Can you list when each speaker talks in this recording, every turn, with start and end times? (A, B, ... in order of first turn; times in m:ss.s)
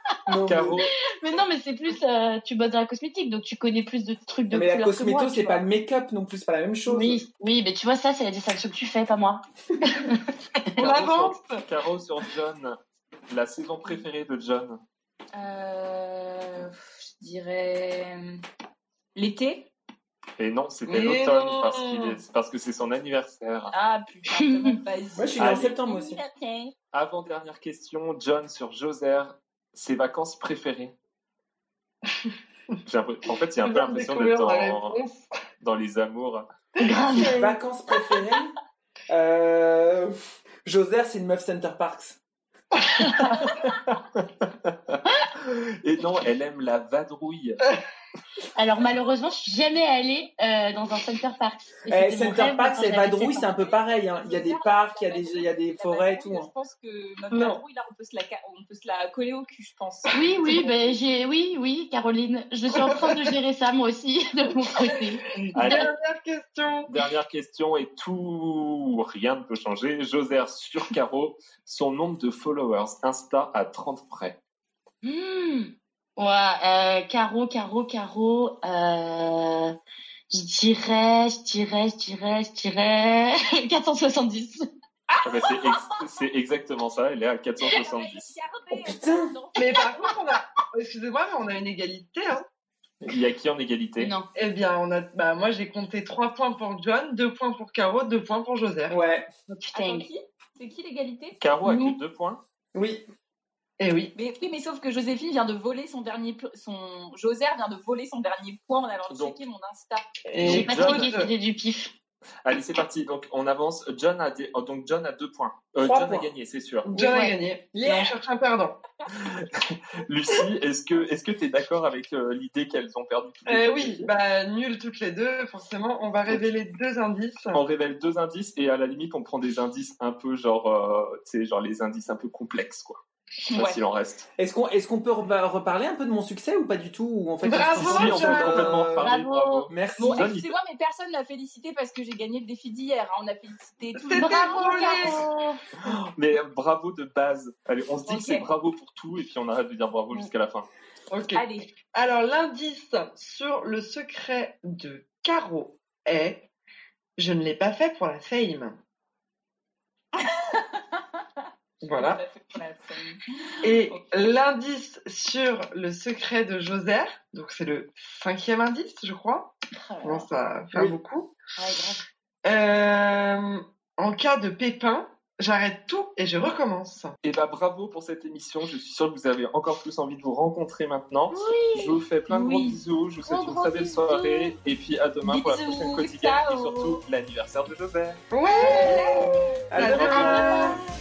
0:00.3-0:00.8 A
0:00.4-0:00.9 B
0:01.1-0:05.6 C
0:04.5-0:07.2 A
0:06.9-0:10.3 C
0:10.8-0:11.6 D
0:10.8-0:12.8 B
0:13.3-0:14.8 B
0:15.3-0:18.4 E
0:19.1-0:19.7 E
0:20.4-0:23.7 B
0:20.9-0:22.2 D
0:23.7-0:26.7 E
0:24.3-0:24.8 C
0:25.1-0:26.2 A
0:25.4-0:25.8 B
0:26.9-0:30.9 B
0:32.8-0:35.0 B
0:33.6-0:35.3 D
0:35.6-0:36.4 B
0:36.8-0:37.5 C
0:37.1-0:37.5 D
0:37.2-0:38.5 A
0:39.1-0:42.2 A
0:43.9-0:47.6 B
0:48.5-0:53.5 C
0:51.9-0:56.5 A
0:53.5-1:00.9 E
0:57.3-0:57.6 D
1:00.1-1:05.9 C
1:02.7-1:03.1 D
1:04.8-1:06.9 D
1:05.5-1:05.9 B
1:06.9-1:14.4 B
1:15.0-1:19.7 C
1:20.3-1:24.6 C
1:25.2-1:28.3 B
1:27.6-1:30.1 E
1:28.7-1:29.4 A
1:29.6-1:32.4 D
1:33.0-1:34.1 B
1:34.0-1:34.3 C
1:34.3-1:39.0 D
1:38.9-1:39.3 A
1:39.5-1:40.1 C
1:39.7-1:41.4 E
1:41.4-1:42.4 B
1:41.6-1:42.0 C
1:42.7-1:43.0 A
1:43.8-1:44.1 D
1:44.1-1:50.1 E
1:49.1-1:49.4 B
1:50.3-1:51.3 D
1:50.4-1:51.1 B
1:50.4-1:51.9 C
1:52.4-1:56.9 B
1:55.8-1:56.2 A
1:56.8-1:58.8 D
1:56.9-1:57.4 C
1:59.1-2:04.1 B
2:03.4-2:07.6 D
2:07.5-2:13.0 B
2:13.5-2:13.8 E
2:13.5-2:14.3 B
2:14.4-2:19.1 A
2:17.4-2:18.9 D
2:17.6-2:20.5 B
2:18.2-2:19.7 C
2:19.7-2:20.3 A
2:20.0-2:25.2 E
2:24.0-2:25.3 D
2:24.2-2:25.6 C
2:25.8-2:30.7 B
2:28.0-2:28.5 E
2:31.1-2:36.5 D
2:31.3-2:31.7 E
2:37.2-2:38.8 D
2:40.2-2:41.0 E
2:41.8-2:42.2 D
2:41.9-2:43.2 E
2:43.6-2:51.4 D
2:49.7-2:50.3 C
2:51.6-2:52.0 C
2:52.4-2:57.1 D
2:57.2-3:08.2 B
3:01.3-3:02.0 C
3:02.3-3:02.7 E
3:03.3-3:04.5 C
3:05.2-3:07.0 E
3:08.3-3:10.8 D
3:08.6-3:09.5 E
3:08.6-3:10.8 C
3:09.7-3:10.7 A